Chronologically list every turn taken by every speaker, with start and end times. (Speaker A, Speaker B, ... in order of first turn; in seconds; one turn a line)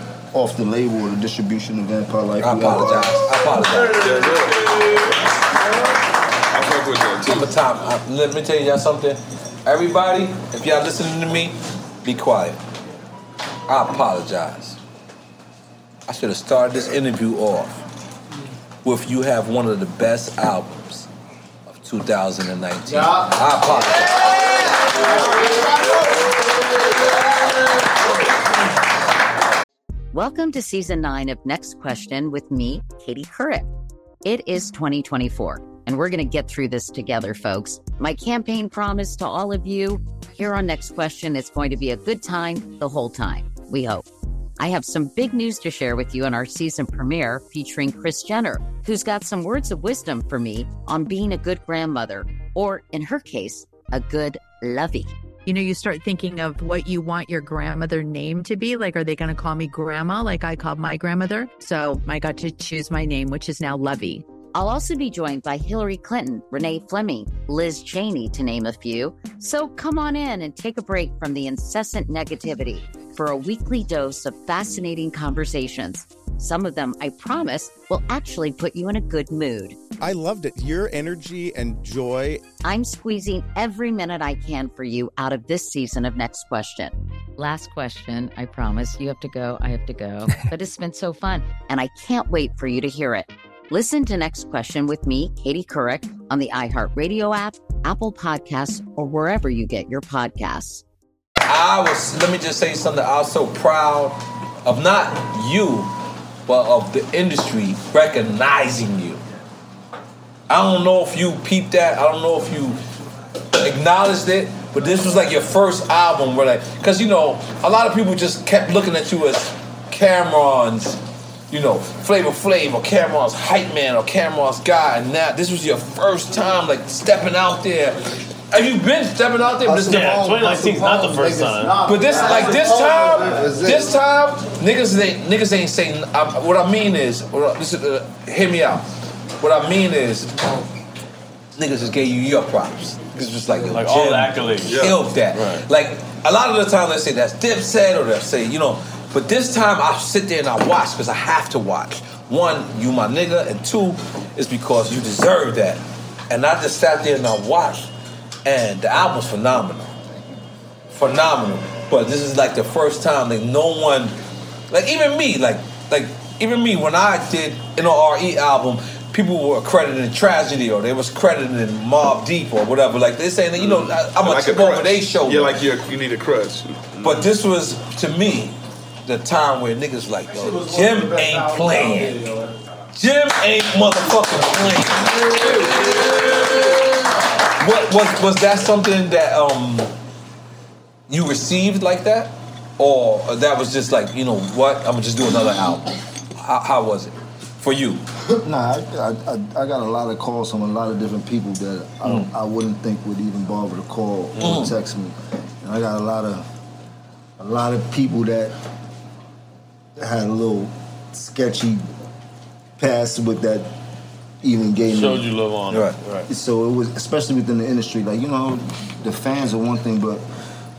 Speaker A: 0.3-3.3
Speaker B: 2.4-4.4
Speaker C: 3.5-5.2
Speaker C: 6.5-7.5
Speaker B: 7.3-12.6
Speaker B: 13.7-14.8
Speaker B: 16.1-17.8
Speaker B: 18.8-21.1
Speaker B: 21.7-24.7
Speaker D: 22.9-23.3
Speaker D: 25.1-26.3
Speaker E: 30.1-33.7
Speaker E: 34.2-44.1
Speaker E: 44.6-55.1
Speaker F: 55.5-64.2
Speaker E: 64.5-79.8
Speaker D: 80.0-82.3
Speaker E: 82.6-100.8
Speaker B: 101.5-105.9
Speaker B: 106.5-109.2
Speaker B: 110.5-112.8
Speaker B: 113.5-121.0
Speaker B: 121.5-130.3
Speaker A: 129.6-132.5
Speaker G: 129.7-131.9
Speaker D: 131.6-133.9
Speaker B: 131.8-138.9
Speaker B: 139.4-140.4
Speaker B: 141.6-157.9
Speaker G: 143.7-145.7
Speaker C: 144.7-145.0
Speaker B: 158.5-159.9
Speaker B: 160.9-164.2
Speaker B: 164.7-175.6
Speaker C: 173.6-176.9
Speaker B: 177.0-182.3
Speaker D: 180.6-182.0
Speaker B: 182.9-186.8
Speaker B: 187.5-189.9
Speaker B: 191.1-198.0
Speaker A: 198.4-206.4
Speaker B: 204.4-204.7
Speaker A: 207.4-208.6
Speaker A: 210.0-211.8
Speaker A: 212.8-213.7
Speaker A: 214.4-215.3
Speaker G: 214.9-216.3
Speaker B: 215.7-216.0
Speaker A: 216.3-220.2